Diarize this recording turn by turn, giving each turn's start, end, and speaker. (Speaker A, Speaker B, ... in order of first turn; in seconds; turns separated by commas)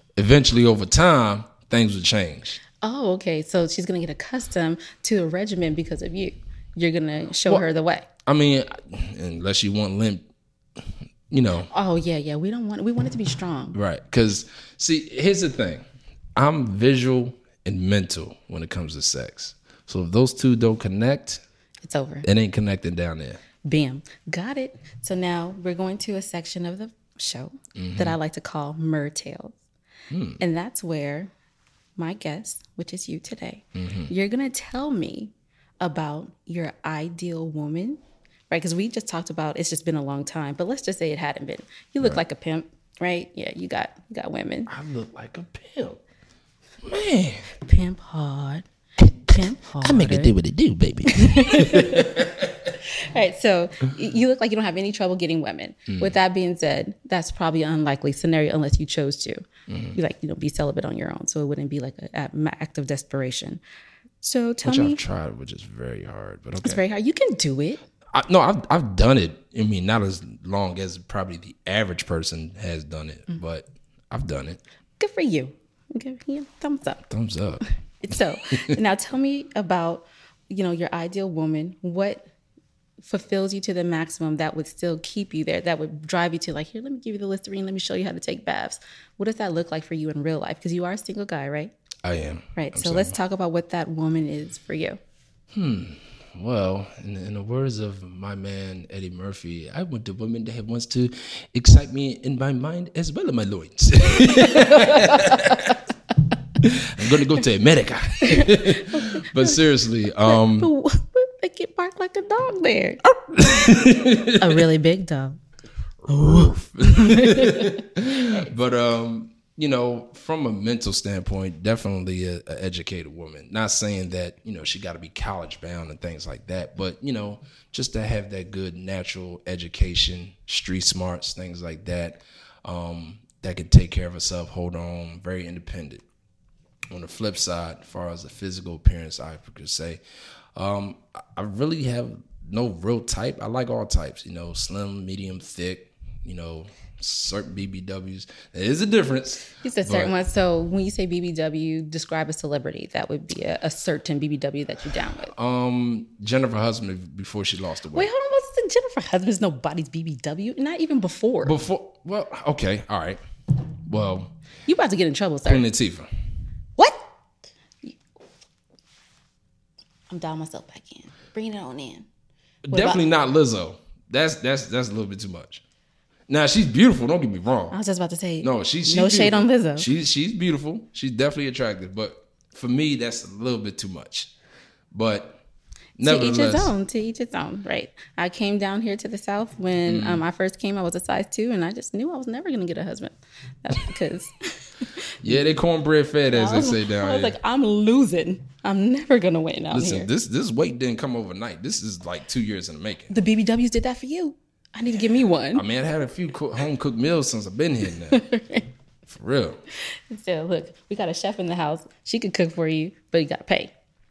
Speaker A: 0.1-2.6, Speaker B: 2.8-8.1, Speaker A: 8.2-10.3, Speaker A: 10.8-11.7, Speaker B: 11.7-13.8, Speaker A: 13.7-21.4, Speaker B: 21.8-22.3, Speaker A: 22.2-23.4, Speaker B: 23.6-29.6, Speaker A: 27.8-28.1, Speaker A: 30.1-30.4, Speaker B: 30.4-31.3, Speaker B: 32.0-44.7, Speaker A: 33.8-34.1, Speaker A: 44.7-46.0, Speaker A: 46.8-47.5, Speaker B: 47.6-50.3, Speaker A: 49.8-52.5, Speaker B: 51.1-52.3, Speaker B: 52.8-63.6, Speaker A: 55.9-56.2, Speaker A: 59.7-60.0, Speaker B: 64.2-65.0, Speaker A: 64.6-66.8, Speaker B: 66.6-67.8, Speaker A: 68.1-74.6, Speaker B: 75.0-77.0, Speaker A: 77.1-77.6, Speaker B: 78.0-82.3, Speaker B: 83.0-91.7, Speaker A: 92.0-93.1, Speaker B: 92.5-95.0, Speaker A: 95.5-105.8, Speaker A: 106.6-110.7, Speaker B: 108.2-109.6, Speaker B: 110.2-113.0, Speaker A: 113.3-114.6, Speaker B: 114.4-115.4, Speaker A: 116.0-136.0, Speaker B: 116.1-117.8, Speaker A: 136.9-140.0, Speaker A: 140.5-150.1, Speaker B: 149.6-155.3, Speaker A: 155.3-158.1, Speaker B: 157.9-161.6, Speaker A: 161.4-163.2, Speaker A: 163.8-164.3, Speaker B: 164.7-165.6, Speaker A: 165.4-166.1, Speaker B: 166.8-167.1, Speaker B: 170.1-172.1, Speaker A: 172.7-175.6, Speaker B: 172.7-173.0, Speaker A: 176.3-177.8, Speaker B: 177.7-179.9, Speaker A: 178.4-184.3, Speaker A: 184.9-185.4, Speaker A: 186.0-186.7, Speaker B: 186.0-194.9, Speaker A: 189.8-190.2, Speaker A: 195.2-197.3, Speaker B: 196.3-200.1, Speaker A: 199.7-203.2, Speaker B: 203.1-205.6, Speaker A: 205.5-208.2, Speaker B: 208.1-208.7, Speaker A: 209.1-209.6, Speaker B: 210.1-213.7